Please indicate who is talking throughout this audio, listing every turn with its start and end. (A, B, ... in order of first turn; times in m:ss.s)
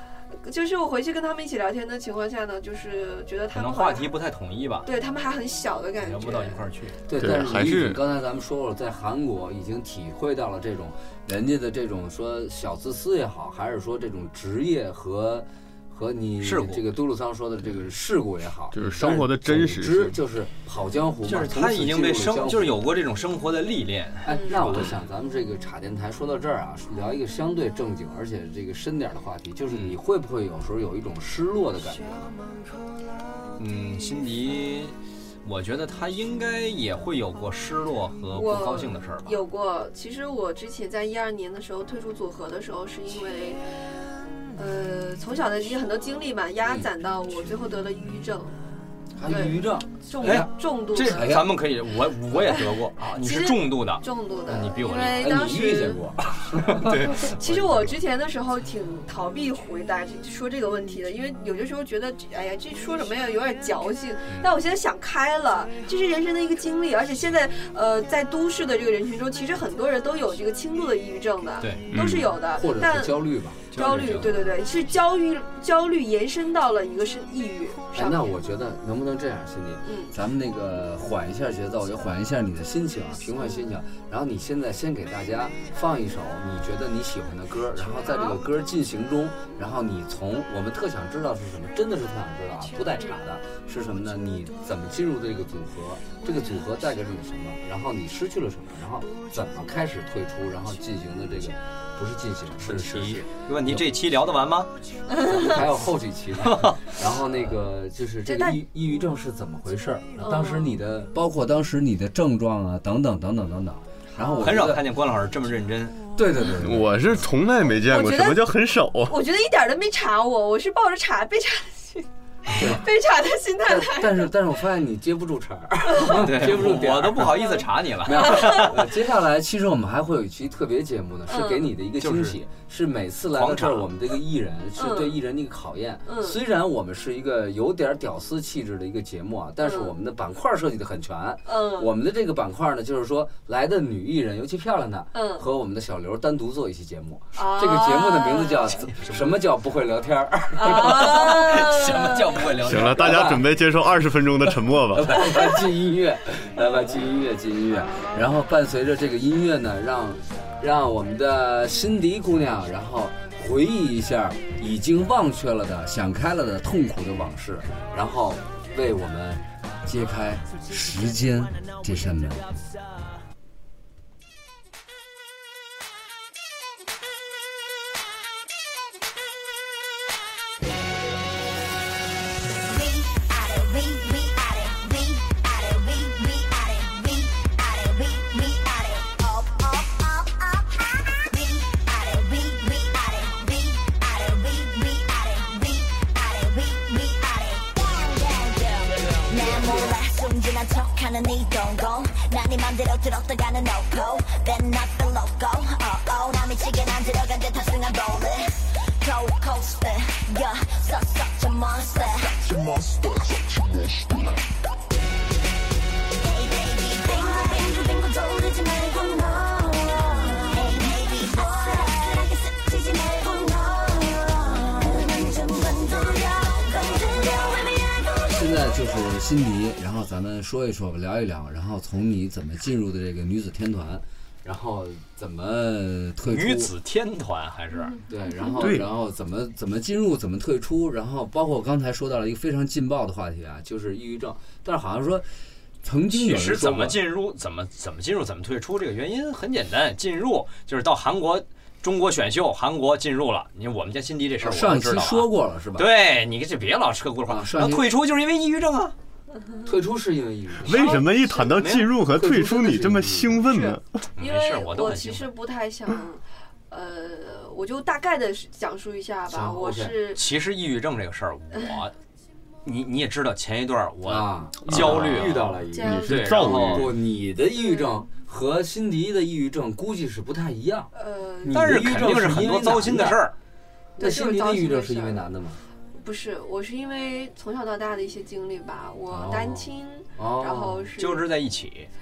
0:00.4-0:04.1 A
0:03.5-0:04.9 B
0:04.8-0:06.6 A
0:06.0-0:07.0 B
0:07.1-0:22.8 C
0:07.1-0:08.0 D
0:16.4-0:17.0 B
0:18.7-0:20.2 D
0:21.2-0:25.0 B
0:24.2-0:32.3 C
0:29.7-0:30.0 B
0:33.6-0:39.3 B
0:38.3-0:43.6 A
0:44.5-0:48.6 A
0:49.2-0:51.6 C
0:49.2-0:51.3 A
0:50.2-0:55.3 B
0:53.2-0:56.0 A
0:55.1-0:57.1 C
0:56.8-0:57.9 B
0:57.2-1:18.3 A
1:11.9-1:12.3 D
1:12.5-1:14.1 C
1:13.7-1:14.4 B
1:17.9-1:43.8 C
1:19.8-1:20.1 A
1:28.1-1:28.4 A
1:42.6-1:44.7 B
1:45.1-1:45.6 A
1:45.2-1:54.8 C
1:46.5-1:46.8 B
1:48.2-1:48.6 A
1:50.2-1:50.7 A
1:54.4-1:56.0 B
1:56.2-1:57.0 C
1:56.6-1:59.2 D
1:57.8-1:58.5 A
1:59.1-2:04.3 A
2:02.5-2:02.8 C
2:03.6-2:31.6 C
2:06.0-2:08.9 B
2:11.3-2:11.7 A
2:12.0-2:12.4 B
2:13.3-2:13.9 B
2:14.8-2:15.2 A
2:16.1-2:16.4 A
2:19.6-2:19.9 A
2:21.4-2:21.9 A
2:25.1-2:25.4 A
2:27.3-2:28.8 A
2:30.6-2:32.2 A
2:30.7-2:33.3 B
2:32.6-2:33.5 C
2:32.6-2:35.3 D
2:34.9-2:52.5 C
3:02.6-3:34.1 E
3:36.2-3:48.4 E
3:48.3-3:56.7 C
3:56.2-3:58.0 B
3:58.1-4:05.3 C
3:58.6-3:58.9 D
4:05.8-4:07.0 C
4:06.1-4:18.9 B
4:14.4-4:15.9 C
4:17.3-4:17.9 C
4:19.6-4:21.0 C
4:20.6-4:23.8 D
4:20.7-4:21.6 A
4:21.6-4:21.9 B
4:22.0-4:23.4 C
4:23.5-4:30.2 A
4:24.2-4:25.3 B
4:29.3-4:30.0 C
4:30.1-4:31.9 B
4:32.6-4:36.9 B
4:34.0-4:36.0 C
4:34.7-4:36.9 D
4:35.7-4:36.5 A
4:36.6-4:40.9 C
4:37.6-4:38.0 A
4:40.9-4:41.8 A
4:41.4-4:43.2 C
4:41.5-4:43.3 B
4:44.0-4:45.6 C
4:44.0-4:45.2 A
4:46.0-4:51.3 A
4:49.1-4:50.9 C
4:51.0-4:51.9 B